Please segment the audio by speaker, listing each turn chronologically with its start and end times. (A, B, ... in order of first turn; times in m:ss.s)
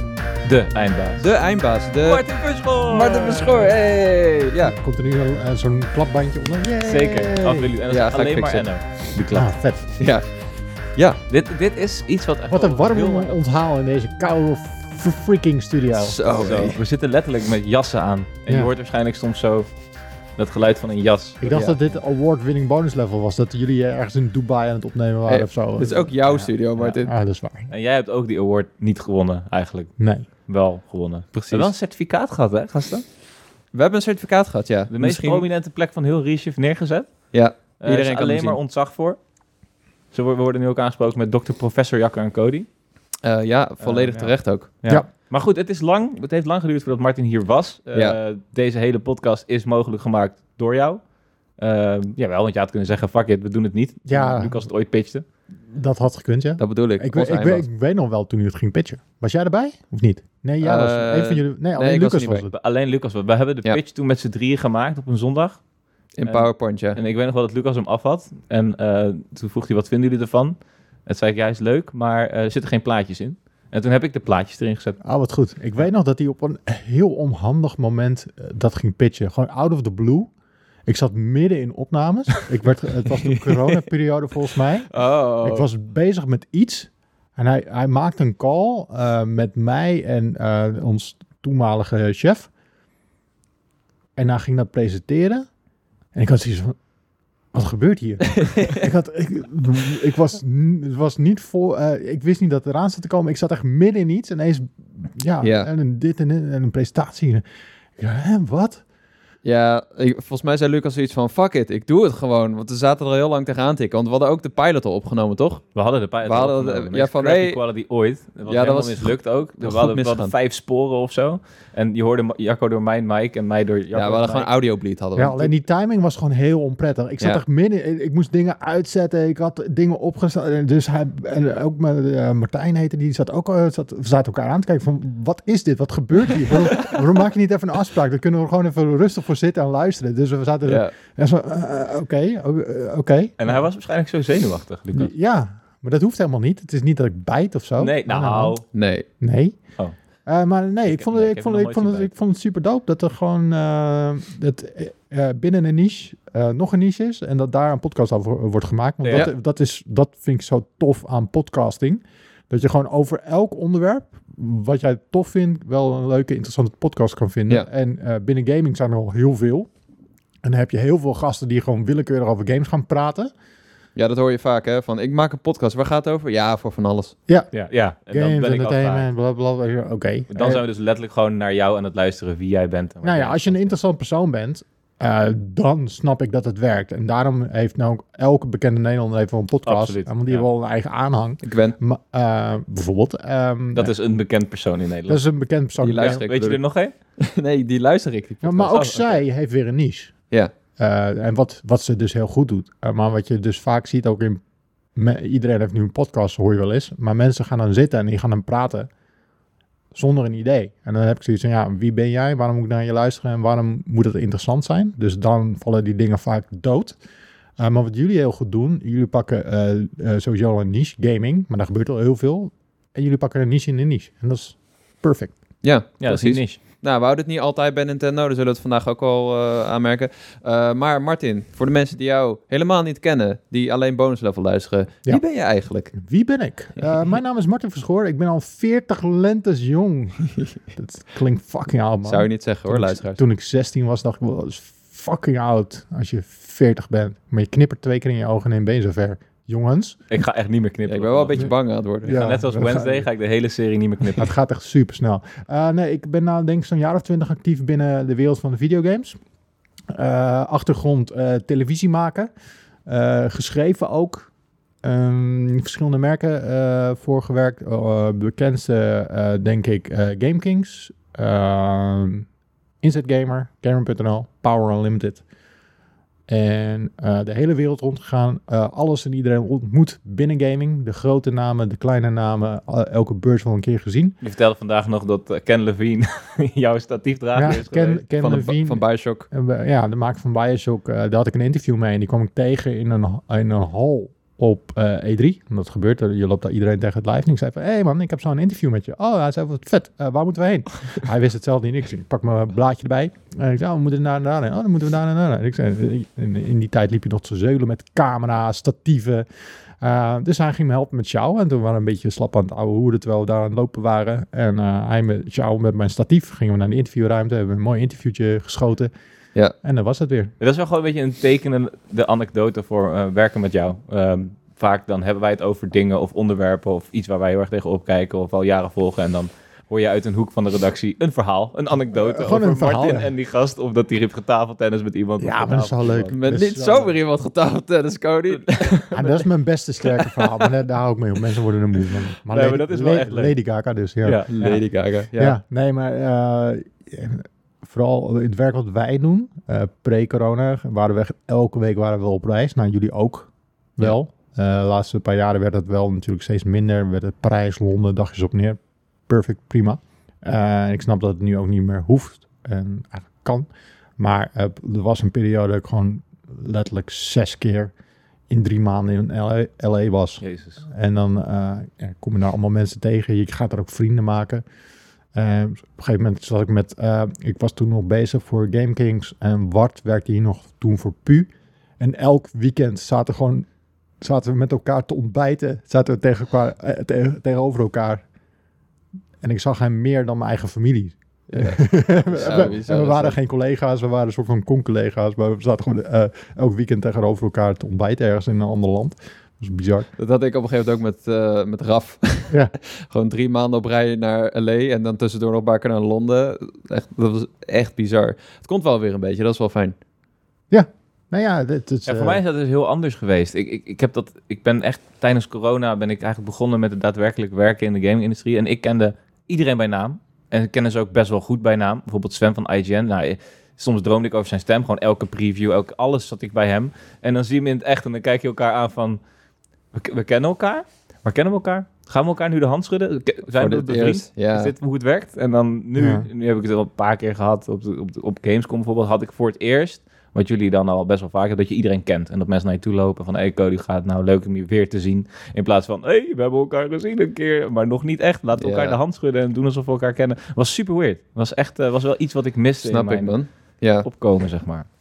0:00.4-0:01.2 A
0:01.2-0:02.2 B
0:02.0-0:03.9 A
0:02.9-0:04.7 B
0:04.6-0:07.7 C
0:06.8-0:09.6 A
0:07.9-0:08.7 B
0:09.3-0:10.0 C
0:10.0-0:10.2 B
0:11.3-0:13.4 A
0:12.5-0:16.2 C
0:16.0-0:16.8 B
0:16.3-0:19.7 A
0:20.4-0:21.4 A
0:21.4-0:26.1 C
0:21.5-0:21.8 B
0:25.2-0:27.1 B
0:26.8-0:27.7 C
0:27.7-0:33.0 A
0:30.0-0:30.2 C
0:31.3-0:31.7 B
0:33.7-0:35.4 B
0:34.9-0:37.2 A
0:37.3-0:38.6 B
0:37.8-0:39.2 A
0:40.1-0:42.7 A
0:43.2-0:44.7 B
0:43.8-0:51.0 A
0:51.6-0:55.2 A
0:54.1-0:54.7 C
0:55.7-1:02.5 C
0:56.6-0:57.6 B
1:00.6-1:02.4 B
1:02.5-1:05.6 A
1:06.2-1:07.0 B
1:06.3-1:15.0 A
1:15.0-1:20.3 C
1:20.9-1:24.9 C
1:24.9-1:25.7 B
1:25.4-1:32.5 C
1:34.2-1:35.5 C
1:36.1-1:36.8 C
1:37.5-1:47.4 C
1:38.4-1:38.8 B
1:45.4-1:45.7 B
1:48.0-1:48.8 C
1:49.4-1:55.6 B
1:55.7-2:04.5 A
1:56.2-1:57.6 B
1:58.4-2:00.3 B
2:03.9-2:05.5 B
2:05.2-2:23.6 C
2:20.6-2:20.9 B
2:23.4-2:25.1 A
2:24.9-2:28.6 C
2:27.8-2:28.6 A
2:28.7-2:29.0 B
2:29.2-2:29.6 C
2:30.2-2:49.7 C
2:30.9-2:32.1 A
2:39.0-2:39.3 A
2:50.4-2:53.3 C
2:54.0-2:57.1 B
2:57.5-2:59.1 A
2:58.1-3:00.6 C
3:00.3-3:03.6 A
3:03.0-3:13.9 C
3:09.6-3:10.4 A
3:11.4-3:11.8 B
3:13.8-3:15.2 A
3:15.1-3:16.2 C
3:15.8-3:16.6 B
3:16.0-3:16.9 A
3:17.2-3:19.1 B
3:18.4-3:20.1 C
3:20.8-3:24.4 C
3:24.9-3:28.9 C
3:29.9-3:37.0 C
3:37.6-3:45.3 C
3:45.6-3:55.9 B
3:46.0-3:46.6 A
3:55.9-4:10.0 C
4:02.0-4:03.2 B
4:10.1-4:11.5 A
4:10.9-4:12.2 B
4:12.0-4:13.1 C
4:12.0-4:14.3 A
4:14.2-4:19.2 C
4:19.9-4:22.3 C
4:22.8-4:24.3 C
4:24.8-4:32.3 C
4:32.8-4:35.2 C
4:36.3-4:44.2 C
4:44.2-4:48.0 A
4:47.3-5:09.2 C
4:48.2-4:49.3 B
5:09.8-5:18.9 C
5:19.6-5:20.3 C
5:20.4-5:36.1 A
5:31.9-5:33.1 C
5:35.2-5:36.9 C
5:36.1-5:38.8 B
5:38.5-5:39.1 A
5:38.9-5:44.2 C
5:42.3-5:43.3 A
5:44.0-5:44.6 A
5:44.3-5:45.4 B
5:45.2-6:07.7 C
6:08.3-6:14.4 C
6:10.2-6:10.6 A
6:15.1-6:23.5 C
6:24.0-6:28.0 C
6:29.2-6:39.9 C
6:31.3-6:33.2 B
6:40.0-6:49.8 B
6:50.5-6:52.2 C
6:51.8-7:09.0 A
7:09.7-7:33.2 A
7:13.4-7:14.5 B
7:15.8-7:16.1 C
7:28.4-7:28.8 B
7:32.6-7:33.9 B
7:33.8-7:34.6 A